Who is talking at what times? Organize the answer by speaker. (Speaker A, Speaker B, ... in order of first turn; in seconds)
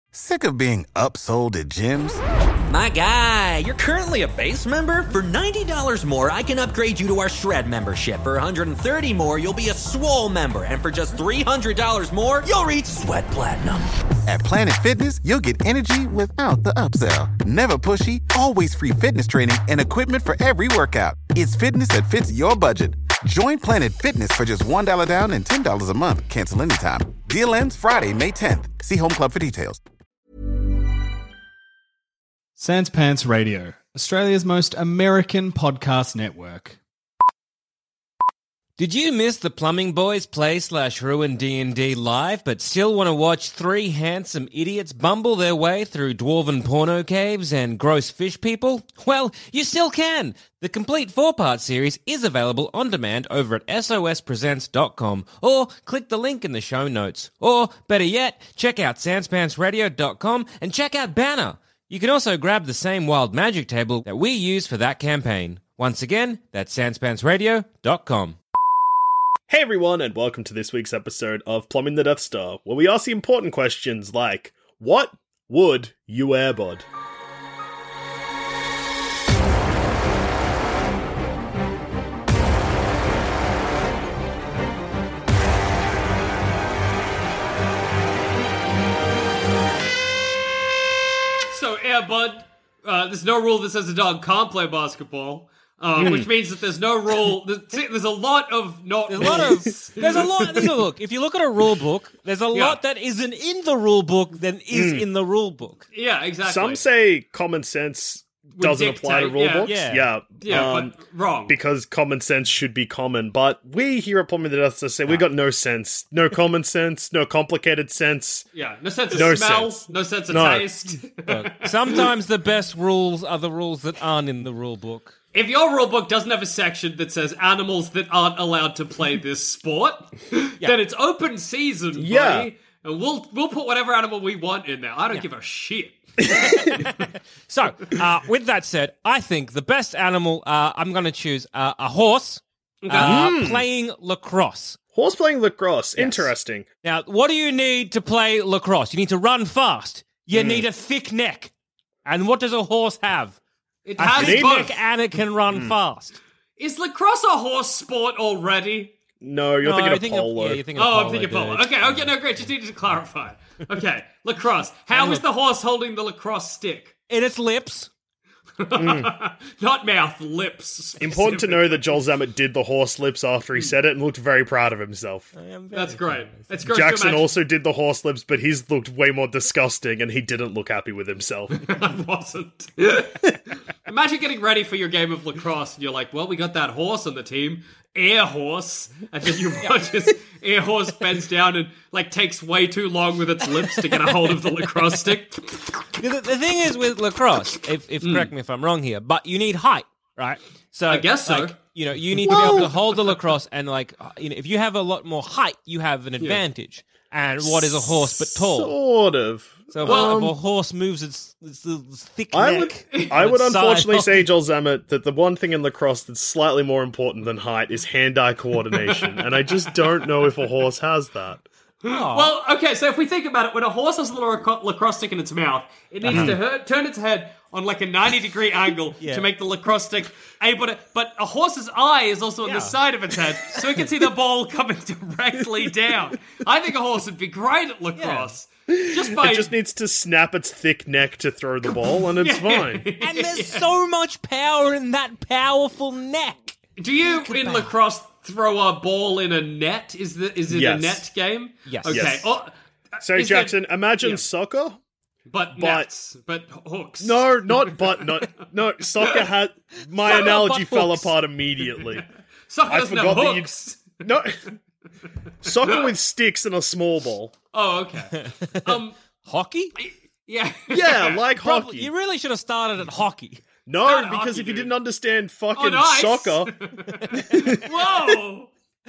Speaker A: 0.1-2.2, 14.2-29.8
Speaker B: 2.7-13.9
Speaker C: 32.6-36.8
Speaker D: 38.8-68.4, 99.1-105.9, 109.6-110.0, 121.3-125.2, 136.3-144.8, 146.0-146.3, 146.8-151.5, 152.0-153.4, 154.0-156.2, 159.6-162.1, 164.9-165.2, 167.1-167.9, 175.4-176.5, 195.9-208.7, 209.7-214.2, 221.8-222.3, 226.0-226.4, 232.4-232.7, 238.0-238.3, 243.0-247.7, 251.7-252.1, 260.0-261.1, 268.6-269.7, 271.4-273.4
Speaker E: 69.5-76.8, 96.0-96.3, 99.2-99.6, 104.7-105.0, 106.4-111.0, 111.5-118.5, 119.1-120.7, 131.9-132.5, 142.9-143.7, 144.9-146.7, 150.3-150.7, 154.1-154.7, 159.2-160.6, 168.7-169.1, 171.0-175.3, 176.6-181.7, 202.2-202.7, 207.4-210.3, 212.3-221.4, 226.1-226.4, 238.7-242.8, 250.5-251.0, 251.8-252.2, 253.0-254.8, 255.6-255.9, 257.0-262.0, 262.7-264.4, 265.4-267.3, 270.7-271.9, 273.6-276.5, 277.1-277.6
Speaker F: 91.5-100.8, 102.5-102.8, 105.9-106.8, 108.6-109.7, 110.4-111.5, 118.5-122.1, 125.3-136.8, 142.8-143.3, 153.8-154.8, 156.6-158.9, 160.8-166.9, 168.6-172.0, 175.7-177.3, 181.5-195.8, 198.0-198.3, 200.9-201.6, 202.3-202.7, 209.8-210.2, 212.9-213.2, 218.8-220.3, 221.8-239.5, 241.6-243.7, 246.8-254.2, 255.3-258.2, 260.1-260.4, 261.8-264.0, 265.6-265.9, 267.5-268.9, 269.8-271.2, 273.8-274.7, 275.5-278.5